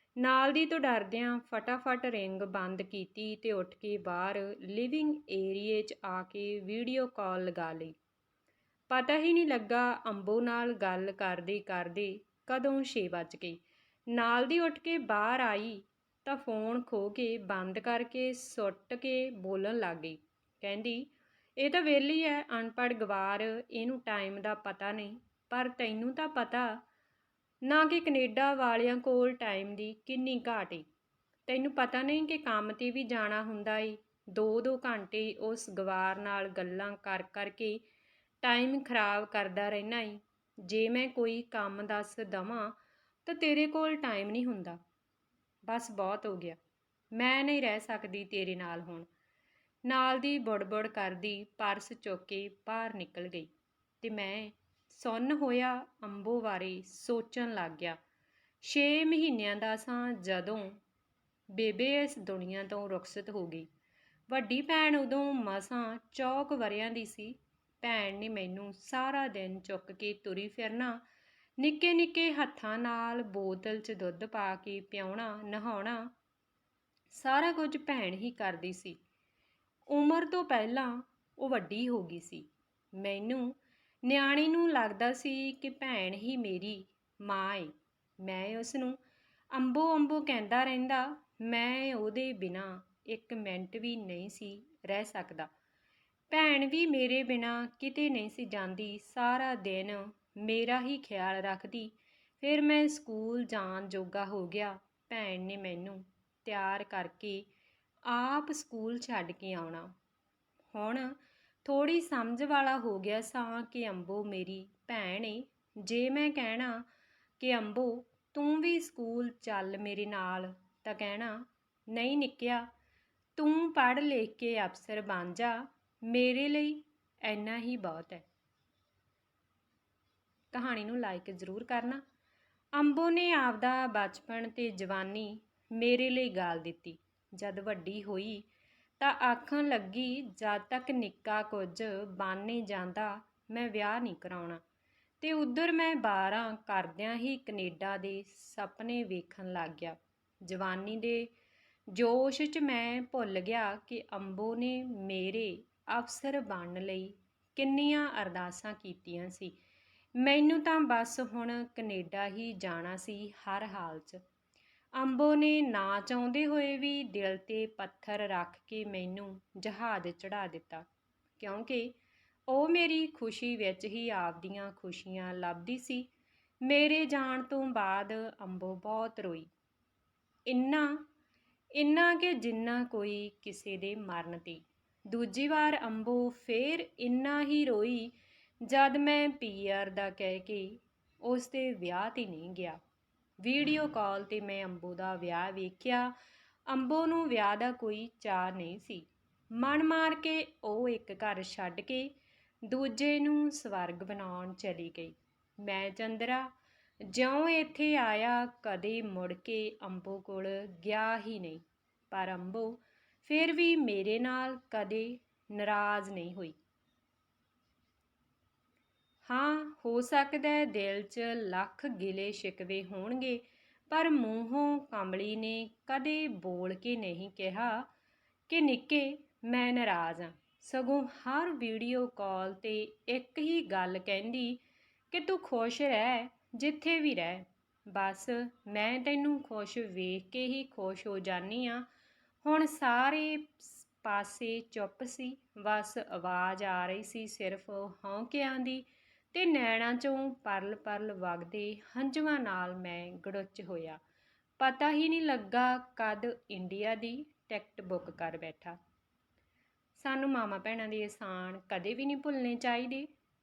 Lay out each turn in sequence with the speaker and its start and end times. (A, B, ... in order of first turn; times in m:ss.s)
0:00.2-0:08.0 A
0:08.9-0:26.8 A
0:27.6-0:30.8 A
0:31.5-0:37.8 A
0:38.4-0:44.8 A
0:45.7-0:46.6 A
0:47.1-0:49.1 A
0:49.8-0:58.0 A
0:58.6-1:00.8 A
1:01.5-1:03.7 A
1:04.3-1:11.0 A
1:11.6-1:16.1 A
1:17.1-1:19.0 A
1:19.9-1:29.0 A
1:29.5-1:35.5 A
1:36.3-1:47.5 A
1:48.1-1:49.9 A
1:50.7-1:56.9 A
1:57.4-2:02.7 A
2:03.4-2:08.3 A
2:10.5-2:12.0 A
2:12.7-2:18.5 A
2:19.0-2:24.6 A
2:25.2-2:31.3 A
2:31.9-2:39.6 A
2:40.2-2:44.2 A
2:45.0-2:50.9 A
2:51.4-2:51.9 A
2:52.5-2:56.1 A
2:56.6-2:59.5 A
3:00.5-3:01.1 A
3:01.8-3:12.8 A
3:13.4-3:16.1 A
3:16.7-3:36.6 A
3:39.3-3:47.9 A
3:48.5-4:01.9 A
4:02.4-4:14.0 A
4:14.6-4:18.8 A
4:20.0-4:23.1 A